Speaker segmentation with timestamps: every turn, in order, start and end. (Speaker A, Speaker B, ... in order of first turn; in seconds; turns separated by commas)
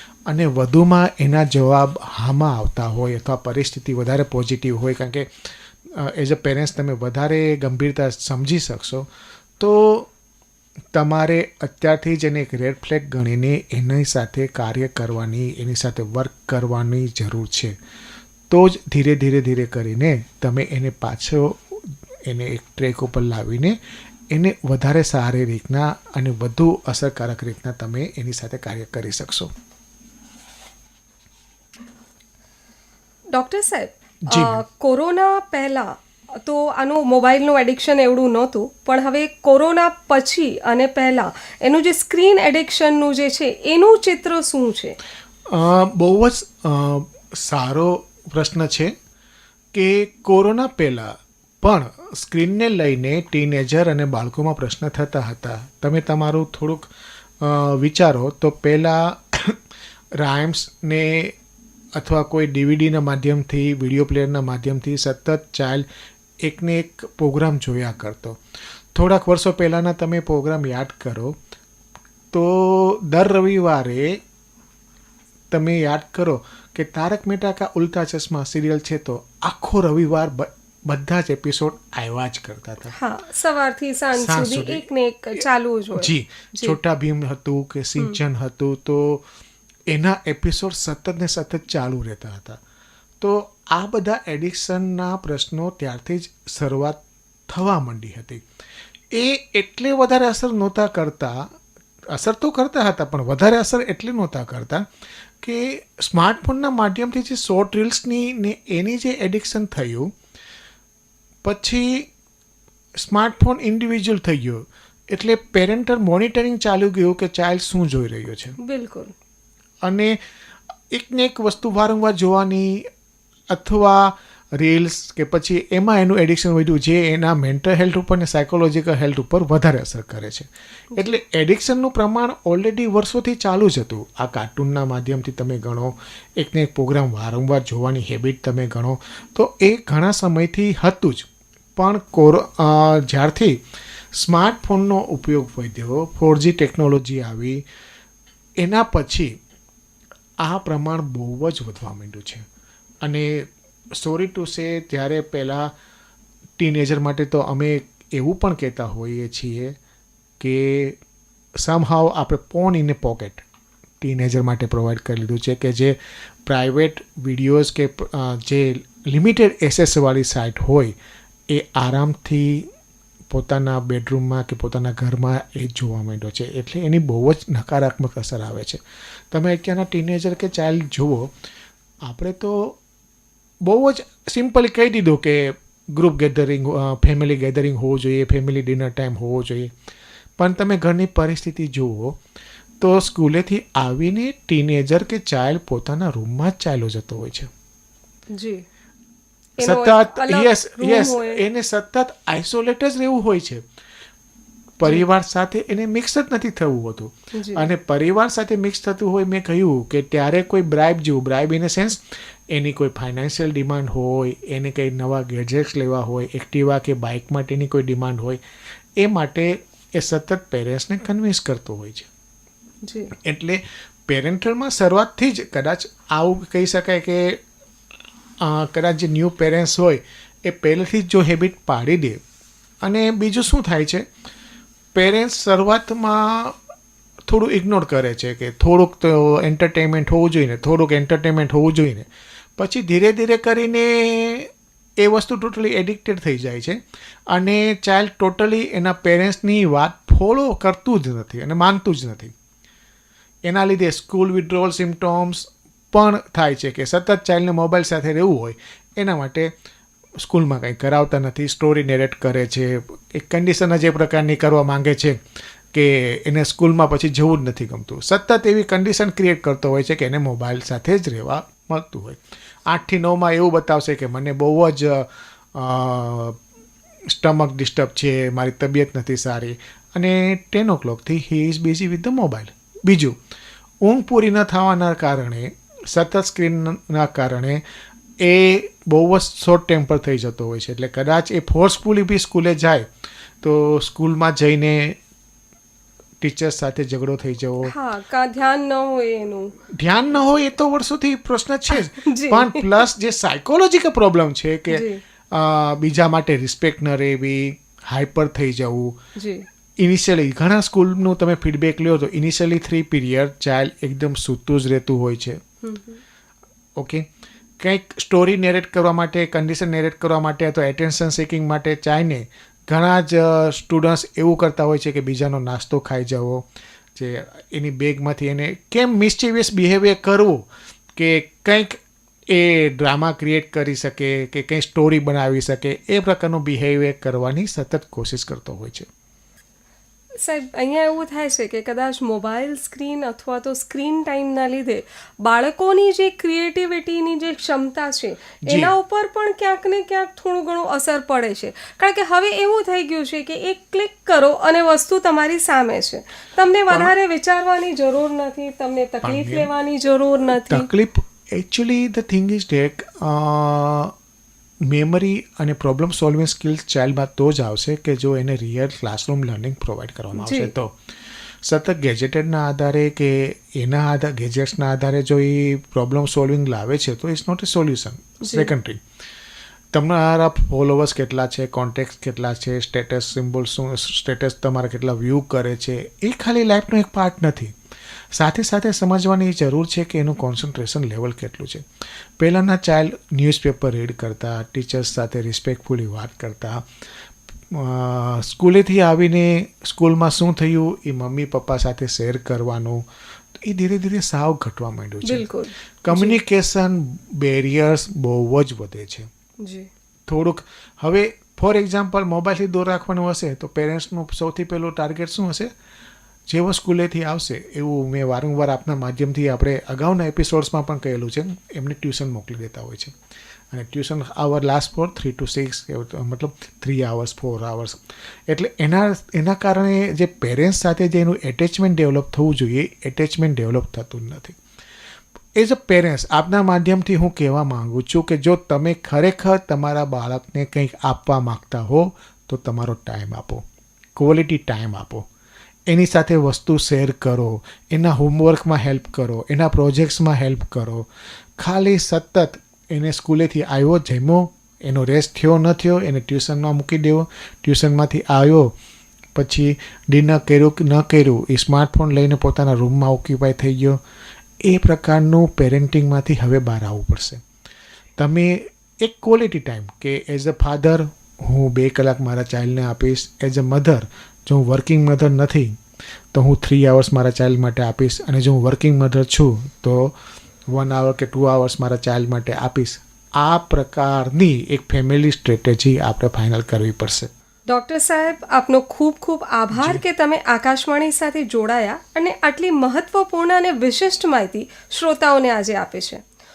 Speaker A: 0.3-10.1, Speaker A: 10.9-17.8, Speaker A: 18.5-23.8, Speaker A: 24.3-29.5, Speaker B: 33.3-45.0, Speaker A: 34.3-34.6, Speaker A: 45.5-48.9, Speaker A: 49.7-59.6, Speaker A: 60.2-61.4, Speaker A: 62.0-65.9, Speaker A: 66.4-68.4, Speaker A: 68.9-71.4, Speaker A: 72.3-74.2, Speaker A: 75.5-83.0, Speaker B: 82.9-86.8, Speaker A: 84.2-84.8, Speaker A: 86.0-89.2, Speaker A: 89.9-92.6, Speaker A: 93.2-98.4, Speaker A: 99.1-101.5, Speaker A: 102.1-104.8, Speaker A: 105.4-110.1, Speaker A: 111.4-112.1, Speaker A: 113.0-118.6, Speaker B: 118.6-119.1, Speaker A: 119.8-120.2, Speaker A: 120.9-122.9, Speaker A: 123.5-143.6, Speaker A: 144.1-147.6, Speaker A: 148.6-149.3, Speaker A: 150.4-152.5, Speaker A: 153.0-155.7, Speaker A: 156.6-159.8, Speaker A: 160.4-161.0, Speaker A: 161.6-163.4, Speaker A: 164.0-170.9, Speaker A: 171.5-172.7, Speaker A: 173.3-178.8, Speaker A: 179.3-181.3, Speaker A: 182.0-182.8, Speaker A: 183.6-189.7, Speaker A: 190.4-192.2, Speaker A: 192.8-197.5, Speaker B: 198.3-198.6, Speaker B: 199.6-201.4, Speaker A: 199.6-203.6, Speaker A: 204.8-218.4, Speaker B: 207.3-207.7, Speaker A: 219.0-222.1, Speaker B: 222.8-223.1, Speaker A: 223.1-227.4, Speaker A: 228.4-232.2, Speaker A: 232.8-234.1, Speaker A: 234.9-236.6, Speaker A: 237.3-246.8, Speaker A: 247.3-252.3, Speaker A: 253.5-259.5, Speaker A: 260.2-265.2, Speaker A: 265.7-276.4, Speaker A: 277.1-283.2, Speaker A: 283.8-287.6, Speaker A: 288.2-292.9, Speaker A: 293.4-295.0, Speaker A: 296.2-297.7, Speaker B: 297.6-299.5, Speaker A: 299.7-309.0, Speaker B: 301.8-302.8, Speaker B: 304.7-305.0, Speaker B: 309.2-309.5, Speaker A: 309.8-315.4, Speaker B: 315.6-316.0, Speaker A: 316.8-317.1, Speaker A: 317.6-338.9, Speaker B: 340.2-360.7, Speaker A: 348.5-348.7, Speaker A: 359.0-359.5, Speaker A: 360.3-363.9, Speaker A: 364.6-370.7, Speaker B: 370.1-370.5, Speaker A: 371.4-378.8, Speaker B: 378.2-378.5, Speaker A: 379.7-387.5, Speaker A: 388.1-391.7, Speaker A: 392.2-396.7, Speaker A: 397.5-405.3, Speaker B: 405.0-406.2, Speaker A: 405.8-409.1, Speaker B: 409.4-409.7, Speaker A: 410.1-415.5, Speaker A: 416.3-422.9, Speaker A: 423.5-434.4, Speaker A: 435.4-443.4, Speaker A: 444.0-445.1, Speaker A: 445.7-450.9, Speaker A: 451.4-458.5, Speaker A: 459.1-463.8, Speaker A: 464.4-467.2, Speaker A: 468.0-475.6, Speaker A: 476.1-480.0, Speaker A: 480.5-487.1, Speaker B: 487.5-496.0, Speaker A: 489.5-489.8